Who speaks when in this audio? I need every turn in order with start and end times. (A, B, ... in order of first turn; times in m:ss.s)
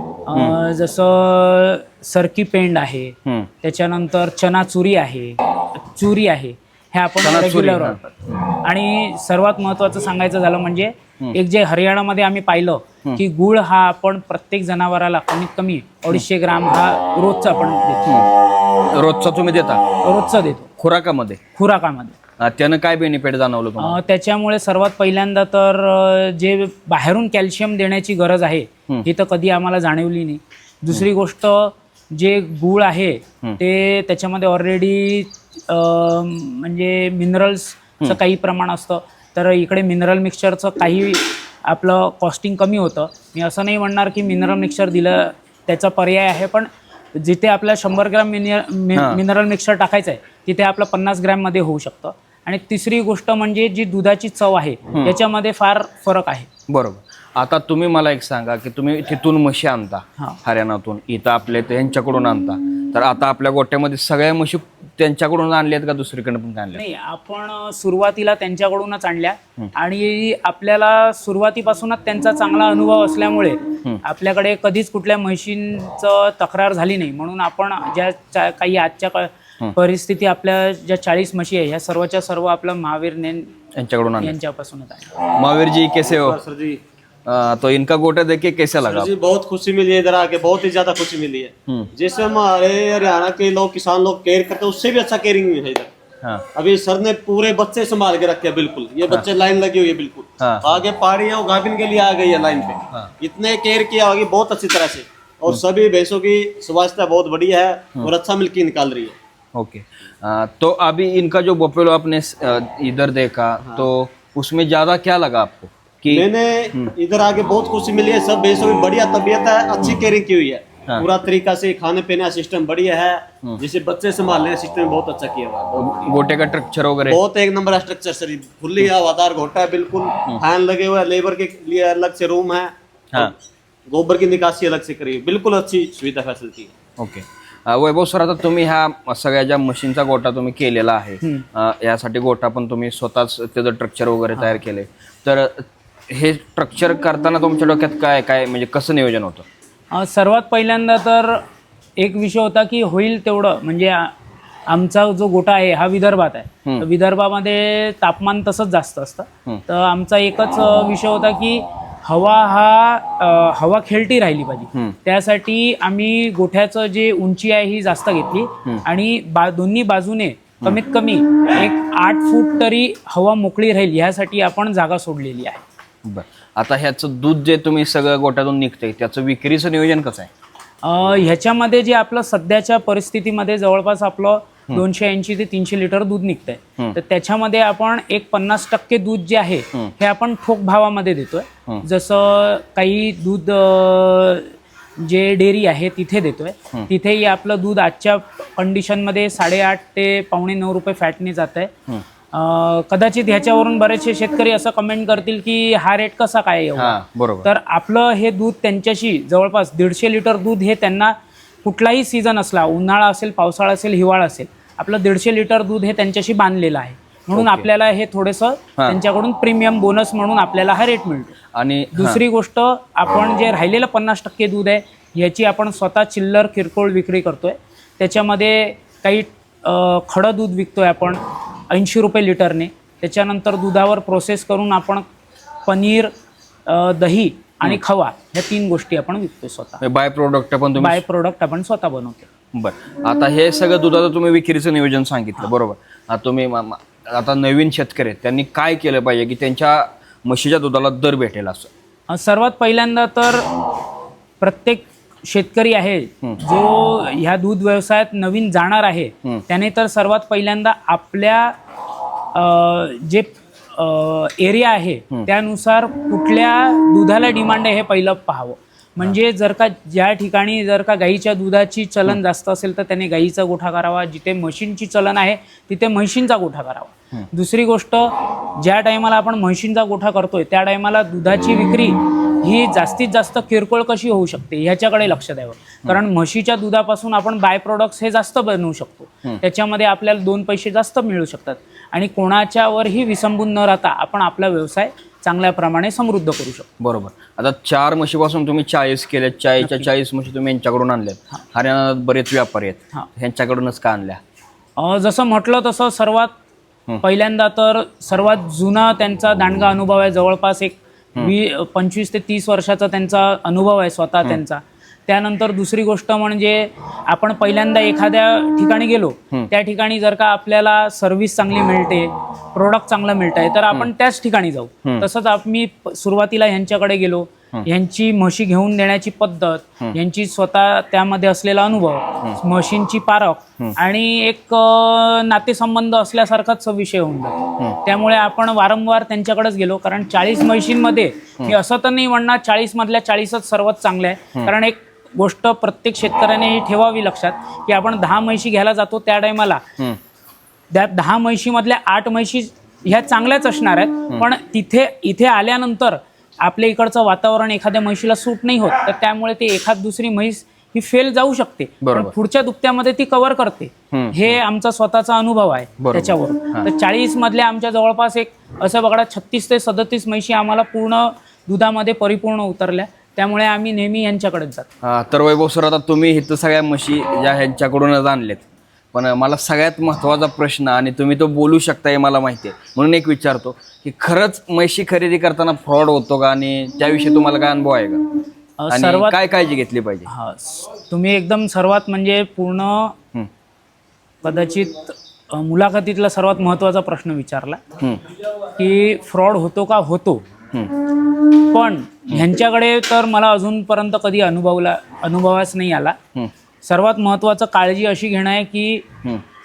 0:00.2-0:18.1 A
0:07.2-0:08.3 B
0:18.9-0:19.8 B
0:20.0-0:20.7 A
0:20.8-0:21.4 B
0:21.6-0:22.2 A
0:22.4-0:24.0 B
0:23.8-0:56.5 A
0:48.9-0:49.2 B
0:56.7-1:06.8 B
1:06.8-1:23.5 A
1:23.7-1:24.3 B
1:24.2-1:25.1 A
1:25.3-1:26.4 B
1:26.2-1:26.8 C
1:27.2-1:29.1 B
1:28.8-1:35.9 C
1:36.5-1:49.2 C
1:40.4-1:40.8 B
1:49.5-1:56.9 B
1:56.1-2:06.1 C
2:05.8-2:07.2 B
2:07.1-2:13.3 C
2:13.9-2:16.7 C
2:17.0-2:29.4 B
2:29.9-2:31.4 A
2:32.0-2:34.1 A
2:34.7-2:55.6 A
2:56.0-3:00.3 B
3:00.8-3:21.7 A
3:22.3-3:41.4 A
3:26.8-3:27.5 B
3:37.3-3:37.7 B
3:41.5-3:42.2 B
3:41.9-3:55.0 A
3:55.7-3:56.1 A
3:56.7-3:59.8 A
3:59.8-4:01.0 B
4:00.8-4:02.3 A
4:02.5-4:11.7 B
4:12.1-4:13.6 A
4:14.4-4:21.6 A
4:22.3-4:56.7 A
4:56.8-5:04.2 B
4:59.6-4:59.9 A
5:04.8-5:06.3 A
5:07.0-5:49.6 A
5:50.7-6:14.7 A
6:01.8-6:02.1 B
6:03.9-6:04.3 B
6:05.8-6:06.7 B
6:14.8-6:28.0 B
6:28.6-6:29.2 A
6:28.7-6:30.1 B
6:30.1-6:32.9 A
6:34.2-6:37.6 A
6:38.4-6:40.2 A
6:41.3-6:46.0 A
6:46.6-6:48.8 A